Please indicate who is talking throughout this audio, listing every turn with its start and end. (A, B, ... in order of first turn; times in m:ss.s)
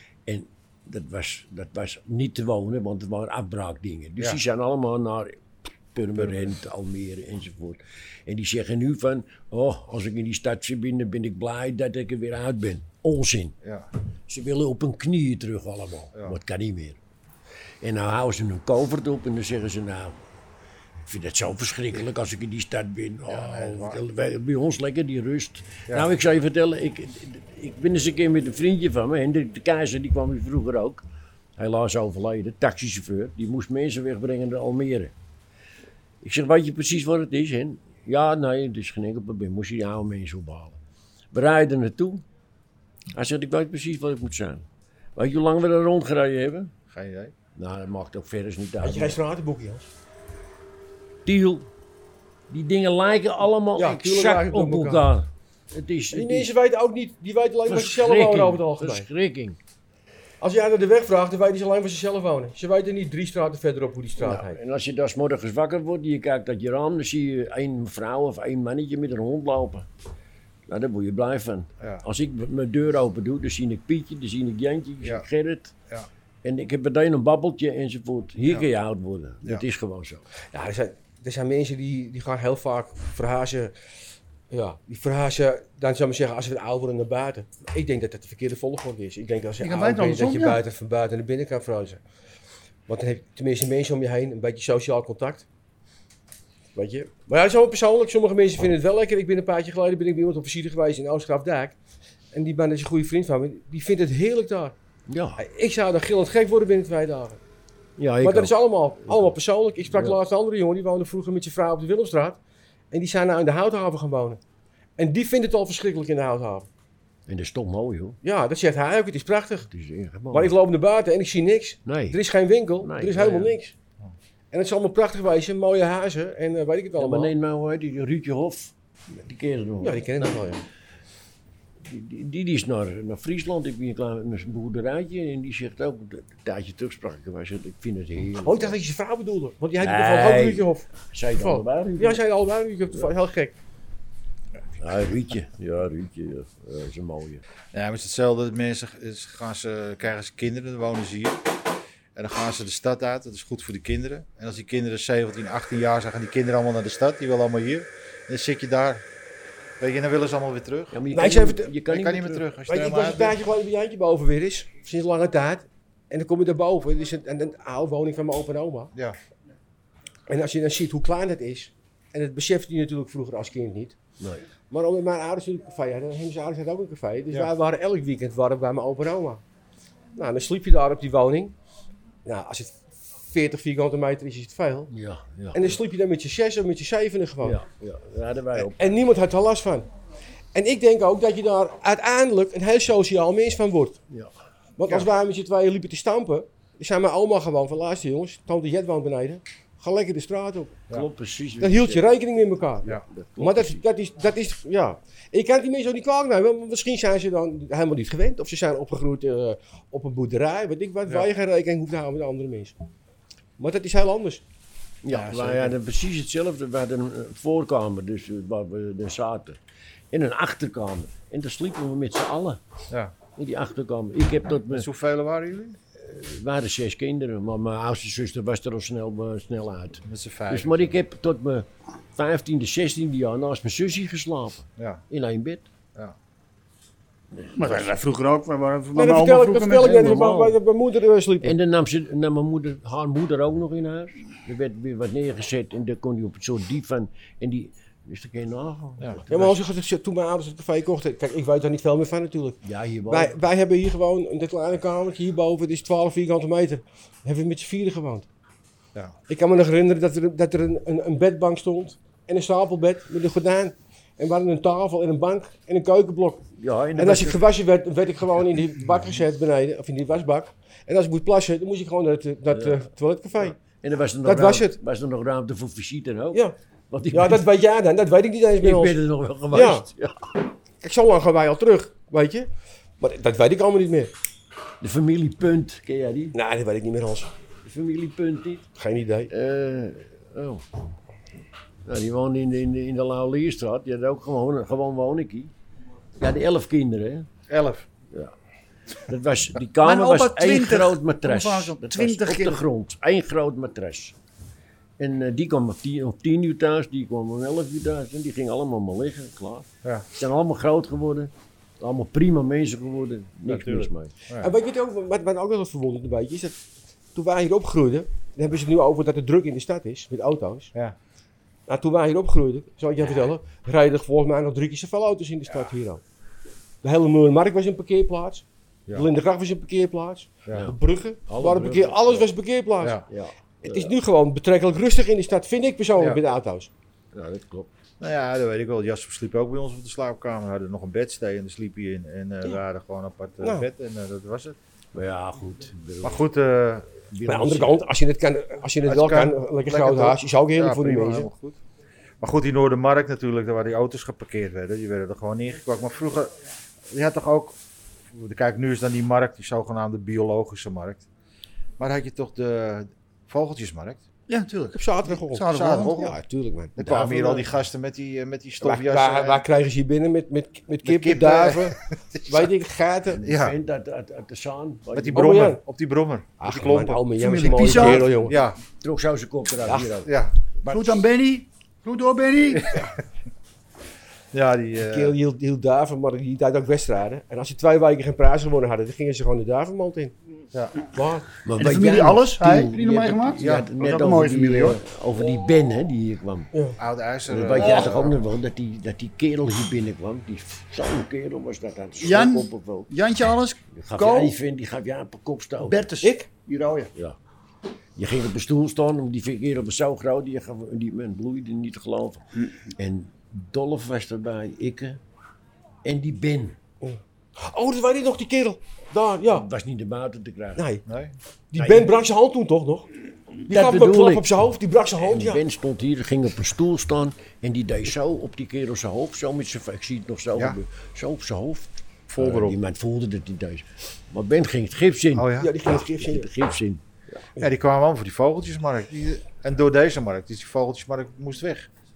0:00.2-0:13.5 A
0:06.2-0:06.5 B
0:14.3-0:17.0 A
0:17.8-0:20.2 A
0:21.0-0:31.0 A
0:23.3-0:24.0 B
0:31.6-0:35.1 A
0:36.2-0:40.8 A
0:41.3-0:42.2 A
0:43.1-0:46.7 A
0:46.9-0:47.3 B
0:47.6-0:49.2 A
0:48.8-0:49.9 C
0:51.2-0:51.7 A
0:52.5-0:56.5 A
0:53.8-0:55.1 C
0:56.1-0:59.1 C
0:57.7-0:59.6 A
1:00.4-1:04.6 C
1:04.2-1:09.9 A
1:10.7-1:15.7 A
1:16.4-1:20.2 A
1:20.5-1:23.7 C
1:24.5-1:32.0 C
1:29.6-1:30.6 D
1:32.9-1:35.5 C
1:36.8-1:41.8 C
1:42.3-1:44.8 C
1:45.1-1:45.4 A
1:45.4-1:47.4 C
1:48.0-1:49.2 A
1:48.2-1:52.4 C
1:49.9-1:50.2 A
1:52.9-1:54.4 C
1:55.0-1:56.7 C
1:57.3-1:58.2 A
1:58.2-1:59.7 C
1:59.7-2:00.5 A
2:00.3-2:03.7 C
2:01.9-2:02.2 A
2:02.8-2:03.6 A
2:04.5-2:07.3 C
2:07.0-2:10.4 A
2:09.8-2:10.6 C
2:11.8-2:18.8 A
2:18.4-2:23.5 C
2:19.8-2:22.2 A
2:24.8-2:27.4 A
2:27.7-2:31.4 B
2:32.1-2:39.0 B
2:39.8-2:41.0 B
2:40.9-2:42.5 A
2:41.1-2:41.7 C
2:41.8-2:43.4 B
2:42.7-2:48.9 C
2:50.3-2:54.0 C
2:54.7-2:59.4 C
3:00.2-3:01.5 C
3:02.2-3:04.9 C
3:04.9-3:05.8 A
3:05.5-3:07.6 C
3:07.4-3:08.9 A
3:08.6-3:09.9 C
3:10.5-3:14.0 C
3:14.8-3:20.8 C
3:20.9-3:22.0 A
3:21.6-3:32.8 C
3:22.8-3:23.8 A
3:33.6-3:34.4 C
3:35.0-3:39.6 A
3:35.1-3:35.7 B
3:40.1-3:42.6 A
3:43.4-3:44.9 A
3:44.7-3:45.8 B
3:46.0-3:55.7 A
3:50.0-3:51.0 B
3:54.8-3:55.0 B
3:57.4-3:57.9 A
3:57.6-4:00.5 D
3:59.0-4:01.6 C
4:01.4-4:09.6 A
4:09.3-4:18.3 C
4:12.6-4:13.3 A
4:19.3-4:33.6 C
4:26.6-4:27.4 A
4:32.5-4:32.8 A
4:33.4-4:37.5 A
4:34.2-4:34.8 C
4:37.1-4:39.0 C
4:38.6-4:40.3 A
4:39.5-4:39.8 C
4:40.8-4:42.5 C
4:43.0-4:44.1 C
4:44.8-4:46.3 A
4:46.3-4:47.3 C
4:47.6-4:48.7 A
4:48.8-4:49.3 C
4:49.3-4:50.7 A
4:51.8-4:55.5 A
4:56.2-4:57.3 A
4:57.5-4:57.9 B
4:59.0-5:04.2 A
4:59.8-5:02.6 D
5:05.0-5:14.1 A
5:13.5-5:14.5 B
5:14.4-5:16.6 C
5:17.2-5:20.7 C
5:21.7-5:26.0 C
5:26.8-5:33.0 C
5:30.5-5:32.3 A
5:33.1-5:33.9 A
5:33.6-5:36.7 C
5:37.1-5:37.7 A
5:38.0-5:44.6 B
5:43.4-5:43.7 C
5:44.9-5:46.2 A
5:46.0-5:47.0 B
5:47.1-5:47.8 A
5:47.3-5:51.3 C
5:48.8-5:51.6 B
5:52.2-5:56.3 B
5:56.9-5:57.6 B
5:58.1-6:01.0 B
6:01.8-6:04.0 B
6:04.3-6:06.0 D
6:04.7-6:07.4 C
6:05.5-6:06.2 B
6:06.8-6:09.4 B
6:08.6-6:11.8 C
6:10.8-6:12.5 B
6:12.3-6:13.2 C
6:13.1-6:15.3 A
6:13.2-6:13.6 B
6:14.9-6:18.6 B
6:15.1-6:15.6 C
6:16.4-6:18.4 C
6:17.2-6:18.2 D
6:18.8-6:20.1 A
6:19.7-6:20.0 C
6:20.0-6:21.0 B
6:20.7-6:22.8 D
6:22.5-6:22.9 B
6:24.3-6:25.2 B
6:24.8-6:30.2 C
6:30.8-6:31.3 C
6:31.4-6:36.5 A
6:31.6-6:34.8 D
6:33.4-6:33.7 B
6:36.8-6:38.1 B
6:37.3-6:42.9 A
6:37.6-6:37.9 D
6:42.0-6:44.4 D
6:43.7-6:45.8 A
6:45.6-6:46.9 D
6:48.0-6:55.0 A
6:55.8-6:56.6 A
6:56.8-6:59.5 C
6:59.3-7:00.6 A
7:00.6-7:00.8 C
7:00.8-7:01.1 B
7:01.5-7:02.9 C
7:01.6-7:01.9 A
7:03.5-7:05.4 C
7:03.5-7:04.3 A
7:05.0-7:17.2 A
7:12.1-7:12.6 B
7:15.2-7:15.5 B
7:15.4-7:16.3 C
7:17.4-7:21.7 B